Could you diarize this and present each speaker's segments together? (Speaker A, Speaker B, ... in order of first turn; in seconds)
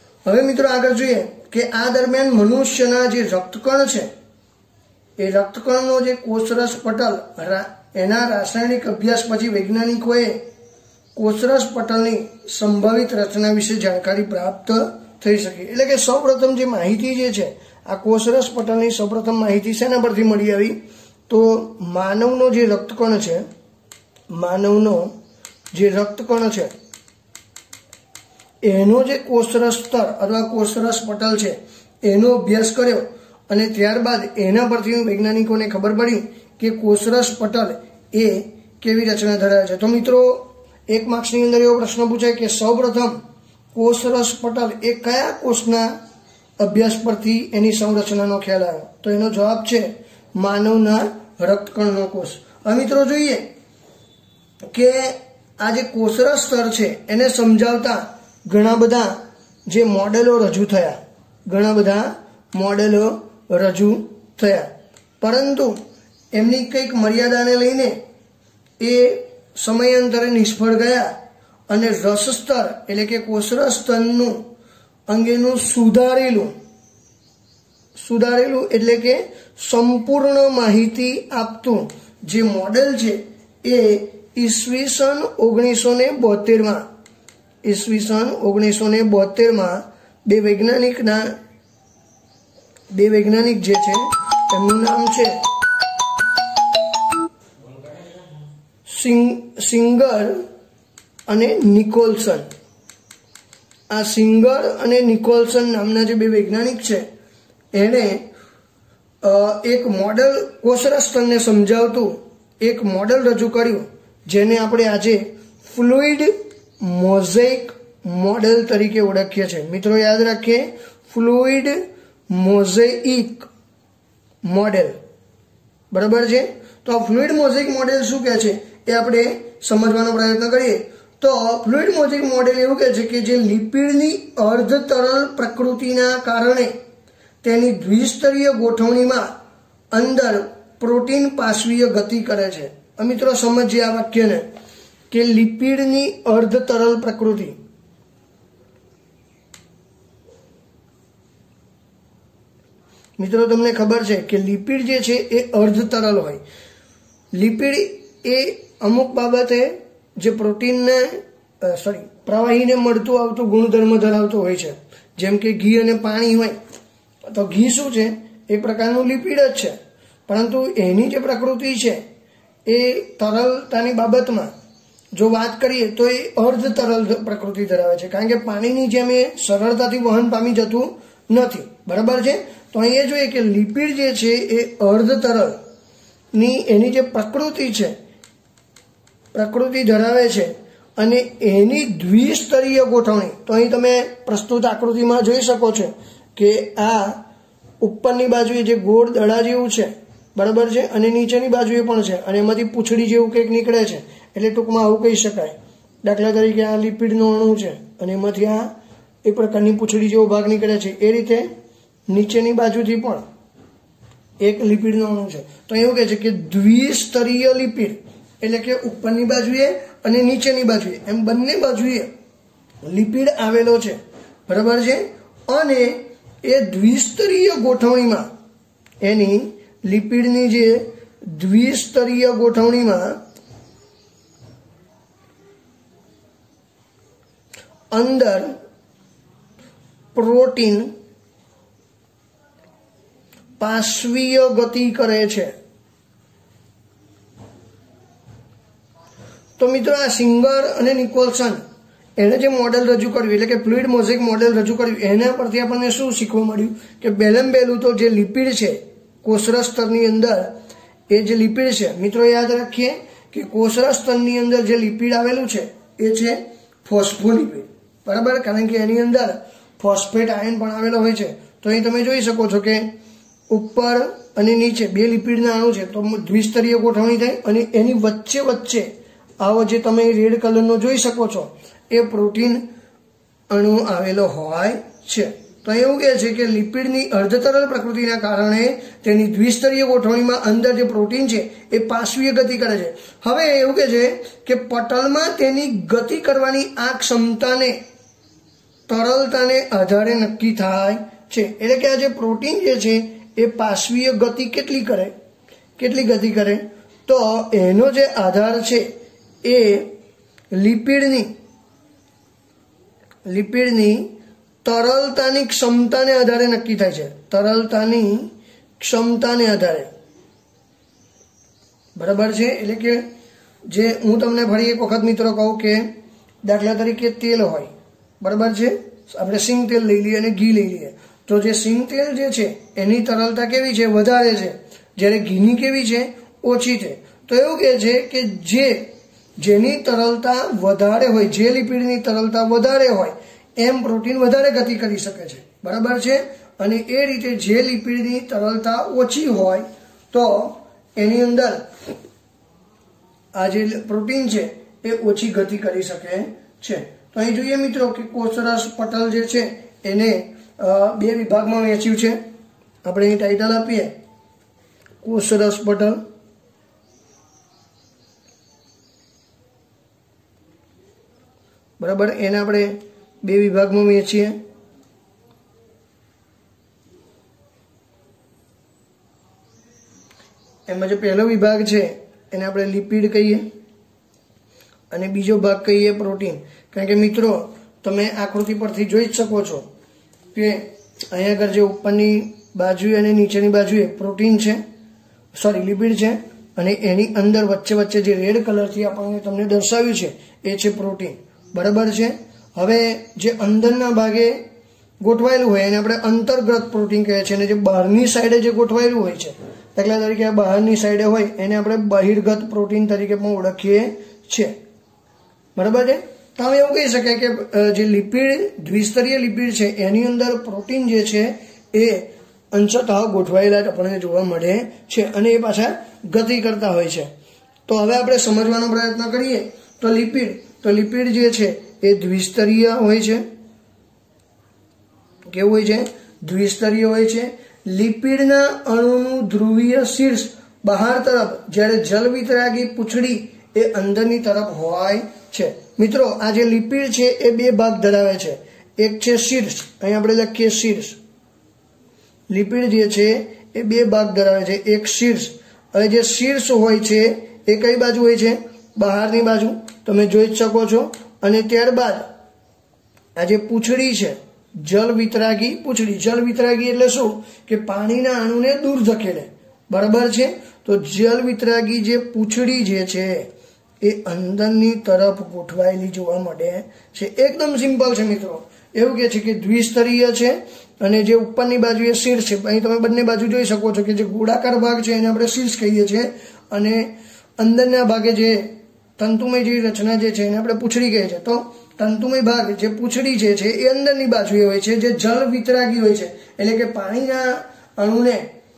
Speaker A: 0.2-4.1, 5.2-10.4, 11.1-20.8, 21.3-23.4, 24.3-25.1, 25.7-26.7, 28.6-43.2, 43.7-45.9, 46.6-53.5, 54.7-65.8, 66.3-68.0, 68.8-71.1, 71.7-74.4, 75.1-76.5, 78.0-86.8, 87.6-91.3, 92.9-95.4, 98.9-100.4, 101.3-102.5, 103.9-107.0, 107.7-108.3, 109.2-121.8, 122.3-123.5, 124.4-125.0, 125.9-136.7, 137.4-139.3, 139.9-144.5, 145.1-147.6, 153.2-156.4, 157.3-166.6, 167.3-169.8, 170.3-172.0, 172.7-174.5, 175.1-185.6, 186.3-187.9, 189.3-197.2, 197.8-208.7, 209.2-211.5, 212.1-213.2, 214.4-222.1, 222.8-228.3, 229.0-233.2, 237.9-238.5, 240.1-240.9, 243.6-245.5, 249.6-251.6, 252.2-260.5, 261.1-272.9, 273.5-282.6, 283.5-297.8, 298.9-305.1, 305.8-308.9, 309.4-309.9, 310.5-311.3, 313.2-319.9, 321.9-323.1, 323.7-325.9, 326.4-351.7, 353.3-362.2, 362.8-363.9, 365.0-366.0, 371.8-374.4, 380.7-383.4, 384.9-389.7, 390.3-394.6, 395.3-404.4, 405.0-414.5, 415.6-427.1, 427.7-433.2, 435.3-451.0, 452.3-462.1, 463.2-473.3, 473.8-498.3